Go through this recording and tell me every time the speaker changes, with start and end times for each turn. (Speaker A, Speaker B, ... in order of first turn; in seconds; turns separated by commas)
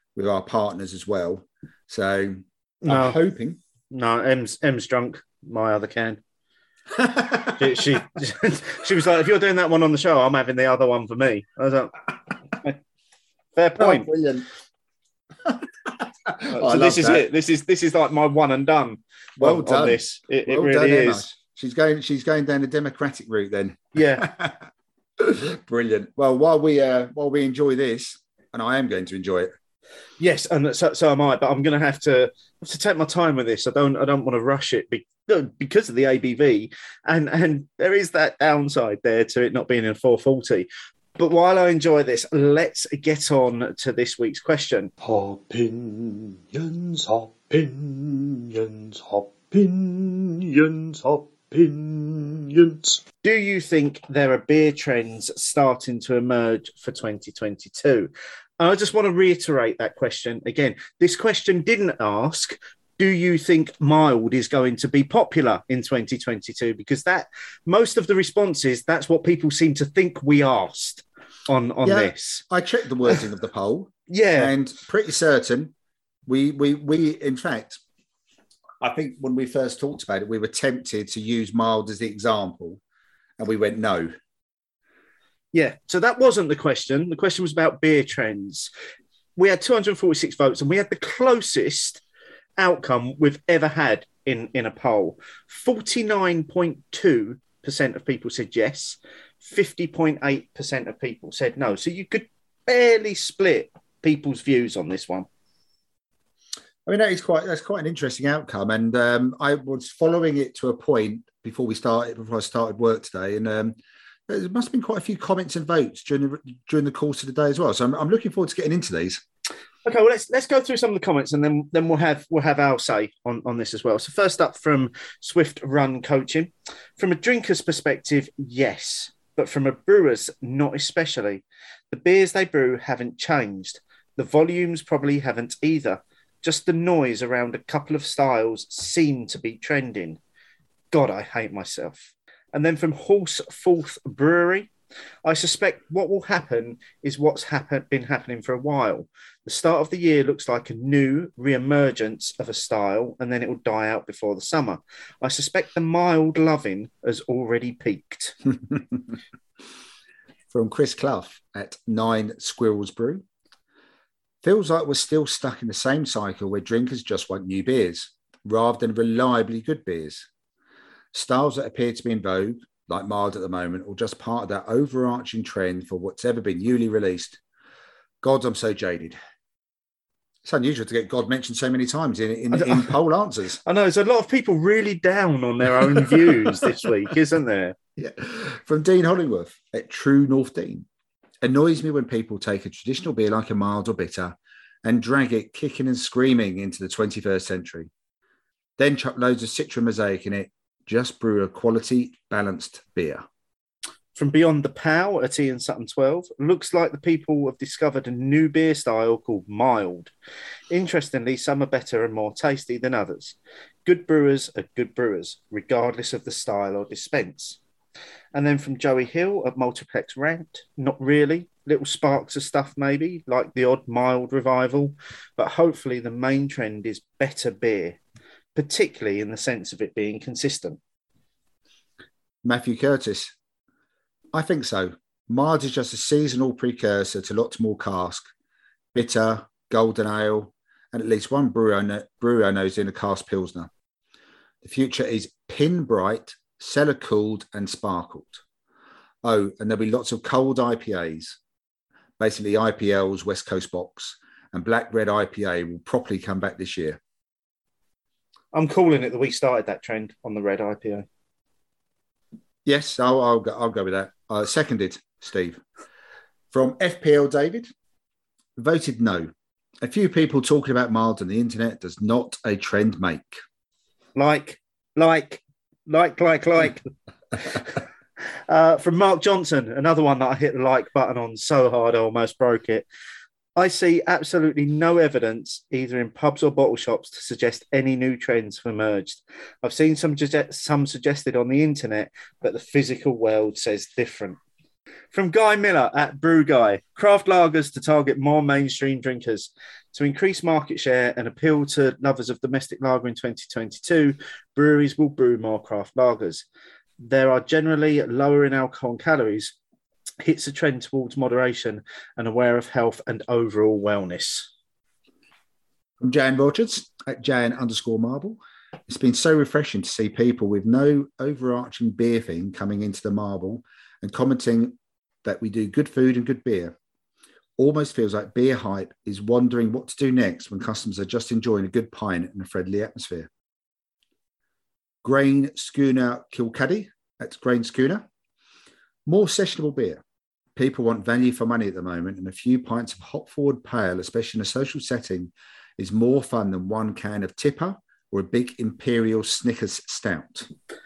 Speaker A: 0.1-3.6, Speaker B: 2.8-3.2, Speaker B: 3.9-6.2, Speaker A: 6.9-7.5, Speaker B: 7.5-11.9, Speaker B: 13.6-14.1, Speaker A: 13.8-14.4, Speaker A: 15.4-17.2, Speaker B: 16.5-21.3, Speaker A: 19.4-24.6, Speaker B: 23.9-24.2, Speaker A: 25.2-29.5, Speaker B: 30.2-44.9, Speaker C: 45.0-53.0, Speaker B: 53.2-72.4, Speaker A: 71.8-75.7, Speaker B: 74.1-74.5, Speaker A: 76.2-77.8, Speaker A: 78.8-82.8, Speaker A: 83.4-84.1, Speaker B: 85.5-88.7, Speaker B: 89.3-92.0, Speaker B: 92.6-105.3, Speaker A: 106.8-113.8, Speaker A: 114.3-119.2, Speaker B: 119.8-140.2, Speaker B: 140.9-144.7, Speaker B: 145.2-158.4, Speaker A: 160.5-163.2, Speaker A: 164.4-170.2, Speaker A: 171.1-177.4, Speaker A: 178.2-179.2, Speaker A: 180.4-183.6, Speaker B: 182.5-182.9, Speaker B: 183.6-187.8, Speaker A: 188.0-190.8, Speaker A: 191.4-197.9, Speaker A: 198.8-203.2, Speaker B: 204.1-210.1, Speaker B: 210.7-217.6, Speaker B: 218.3-228.0, Speaker B: 228.5-230.8, Speaker A: 232.4-233.3, Speaker A: 234.3-238.3, Speaker A: 238.9-243.7, Speaker A: 244.6-248.4, Speaker A: 249.2-251.4, Speaker A: 252.2-257.0, Speaker B: 258.5-261.1, Speaker A: 262.6-265.6, Speaker A: 266.5-267.7, Speaker A: 268.6-269.3, Speaker A: 269.8-273.4, Speaker B: 274.1-276.8, Speaker B: 278.5-282.9, Speaker B: 283.6-294.4, Speaker B: 295.1-306.4, Speaker B: 307.0-309.5, Speaker B: 310.2-314.5, Speaker A: 316.0-326.8, Speaker A: 327.6-333.3, Speaker A: 335.0-338.1, Speaker A: 339.1-340.0, Speaker A: 340.6-350.5